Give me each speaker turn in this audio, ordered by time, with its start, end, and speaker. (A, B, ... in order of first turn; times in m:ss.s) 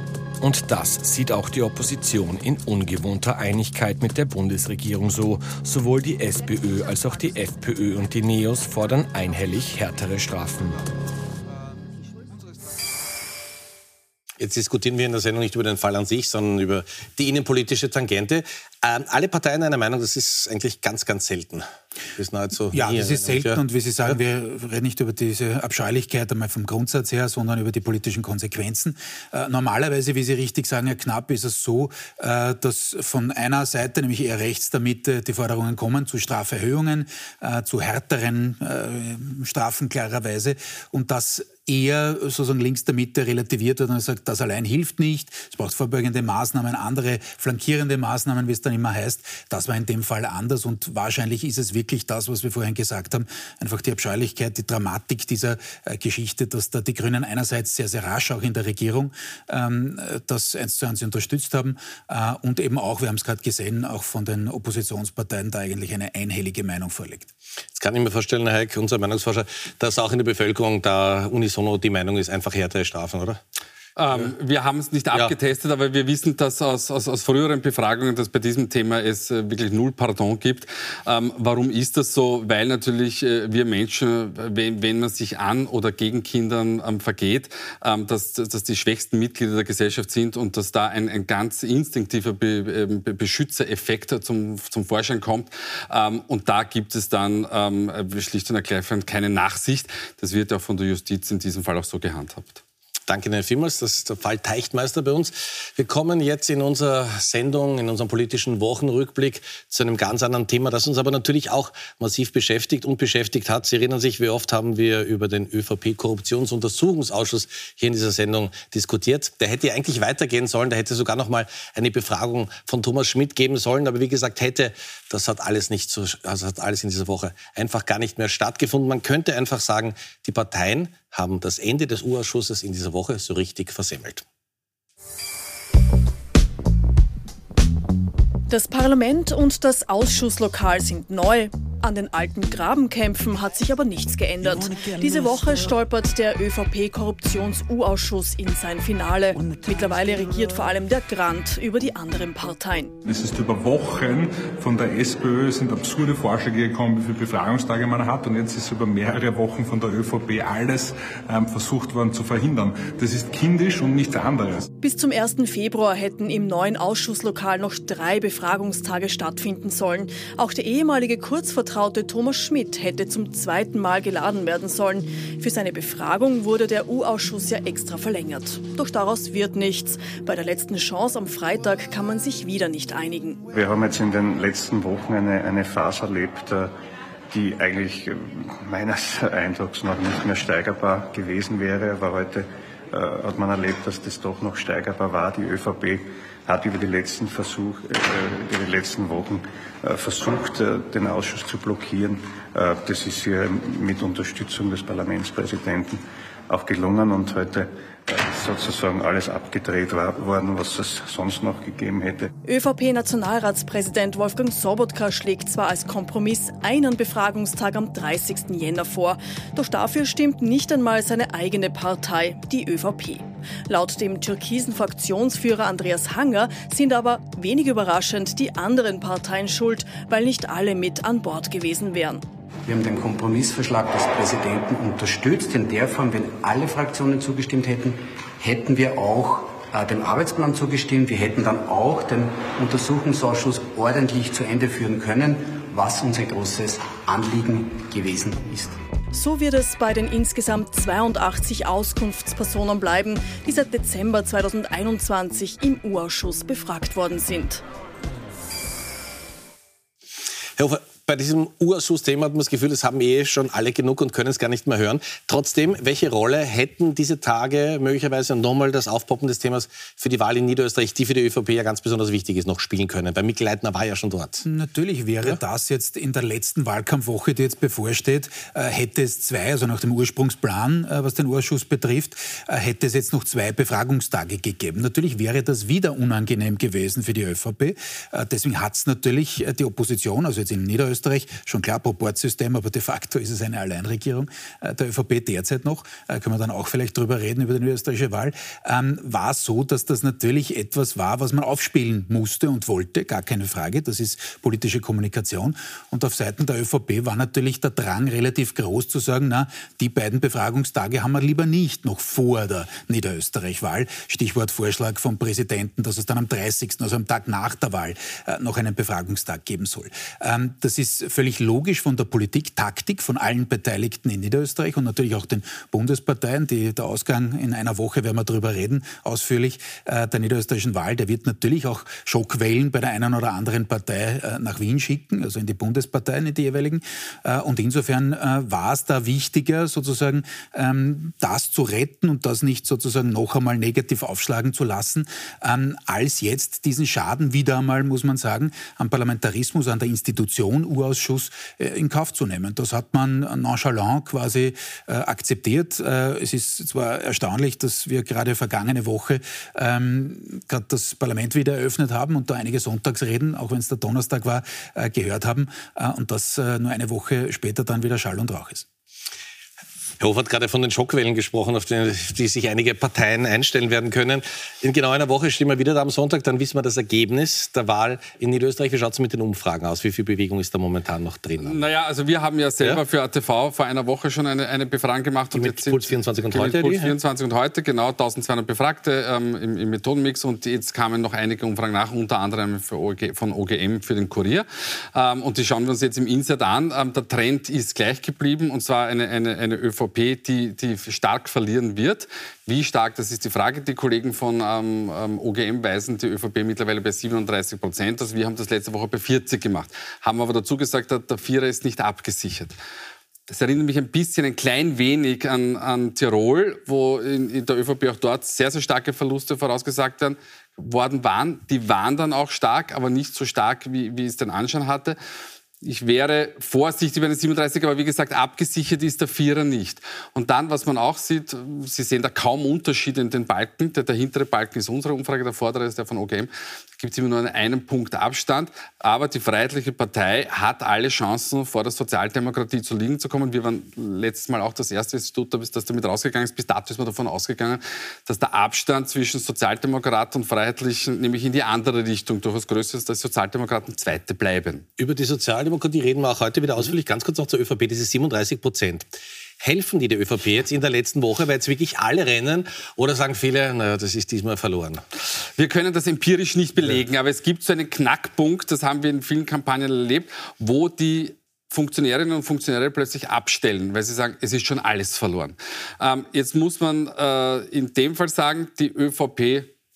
0:00.4-0:10.8 A
0:14.4-0:21.6 B
0:22.2-0:24.1 B
0:22.7-1:07.3 C
1:07.7-1:13.4 B
1:14.0-1:42.6 D
1:43.1-2:14.2 B
2:18.5-2:33.0 E
2:33.0-2:44.7 F
2:44.8-3:03.4 E
3:03.5-3:06.7 G
3:07.3-3:32.3 G
3:32.4-3:52.2 E
3:52.6-4:08.8 H
4:09.1-4:17.6 E
4:20.6-4:34.4 B
4:34.4-6:08.6 C
6:10.0-6:21.6 B
6:21.4-6:52.5 D
6:25.3-6:26.9 B
6:53.3-7:05.0 D
7:05.6-7:34.6 D
7:34.8-7:44.8 B
7:45.4-7:59.5 D